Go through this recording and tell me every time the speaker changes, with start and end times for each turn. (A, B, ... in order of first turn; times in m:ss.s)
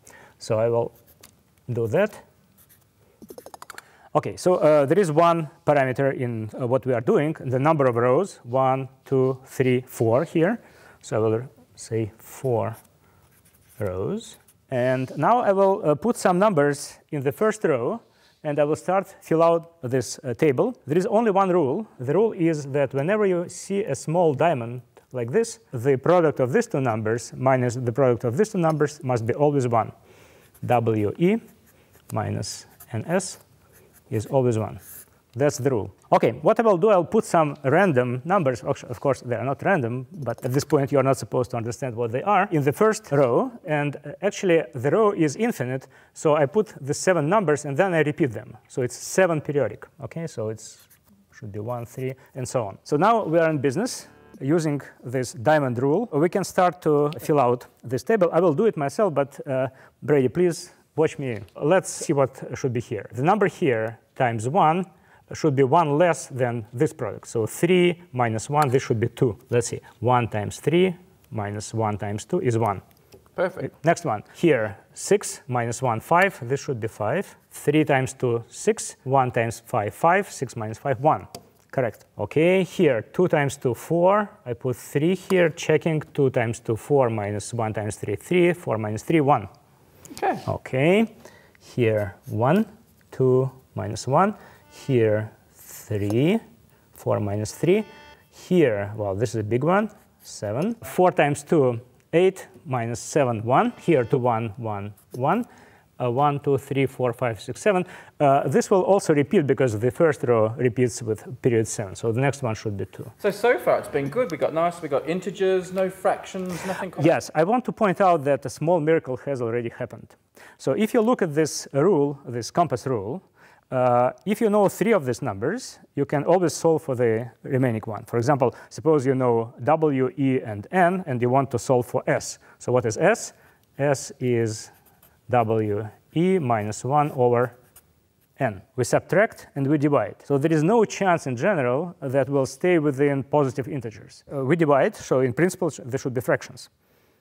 0:00.4-0:00.9 A
0:01.7-0:02.2 A
0:04.1-0:12.8 A
0:13.8-0:29.9 A
0:30.6-0:31.4 A
0:32.1-0:33.4 A
0:34.1-0:34.8 A
0:35.3-1:12.8 A
1:13.4-1:13.7 B
1:13.6-1:29.5 A
1:30.2-1:30.4 B
1:30.4-1:31.1 A
1:31.6-1:36.4 A
1:36.9-1:45.4 A
1:46.0-1:53.1 A
1:53.2-1:57.1 B
1:57.0-2:14.7 A
2:15.3-2:17.6 A
2:18.4-2:26.7 A